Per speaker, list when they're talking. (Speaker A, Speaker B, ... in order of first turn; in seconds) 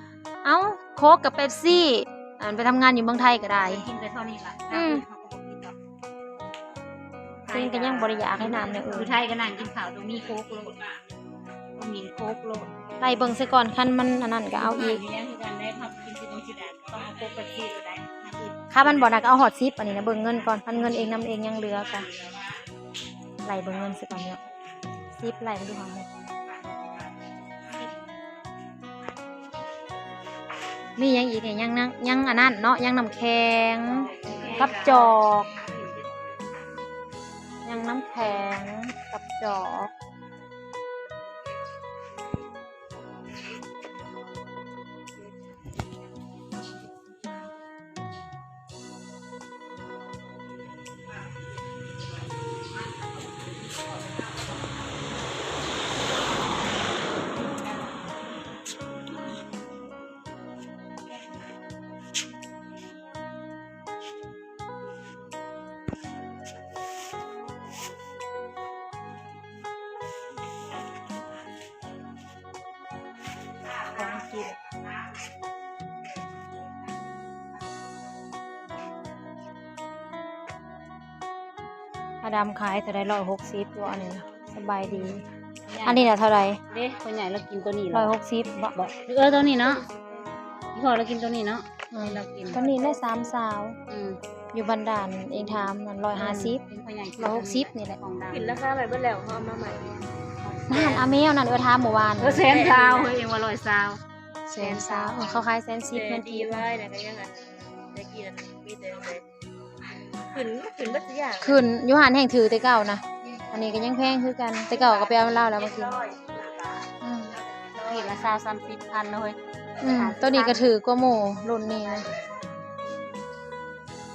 Speaker A: 0.4-3.8, 4.7-5.0, 7.5-9.2, 13.0-15.0, 18.7-22.1, 23.4-24.4, 25.2-26.1, 31.0-35.5, 37.6-39.9, 73.9-74.5, 82.2-85.2, 85.8-86.6, 87.9-88.8, 91.9-93.8, 94.5-96.6, 97.2-98.0, 100.7-102.6, 104.5-106.7, 111.4-116.0, 117.0-117.3, 119.8-122.1
Speaker B: 3.6-5.7, 7.5-10.9, 11.8-12.7, 14.5-19.1, 20.7-22.0, 34.2-35.1, 85.7-86.1, 86.7-88.1, 88.7-89.8, 90.7-93.0, 93.9-94.2, 95.4-98.6, 100.4-101.2, 102.2-104.0, 104.6-105.4, 105.9-106.6, 117.8-120.6
Speaker C: 34.1-35.1, 98.3-100.0, 102.4-103.2, 106.1-109.2, 110.3-111.6, 114.8-116.7, 117.5-118.0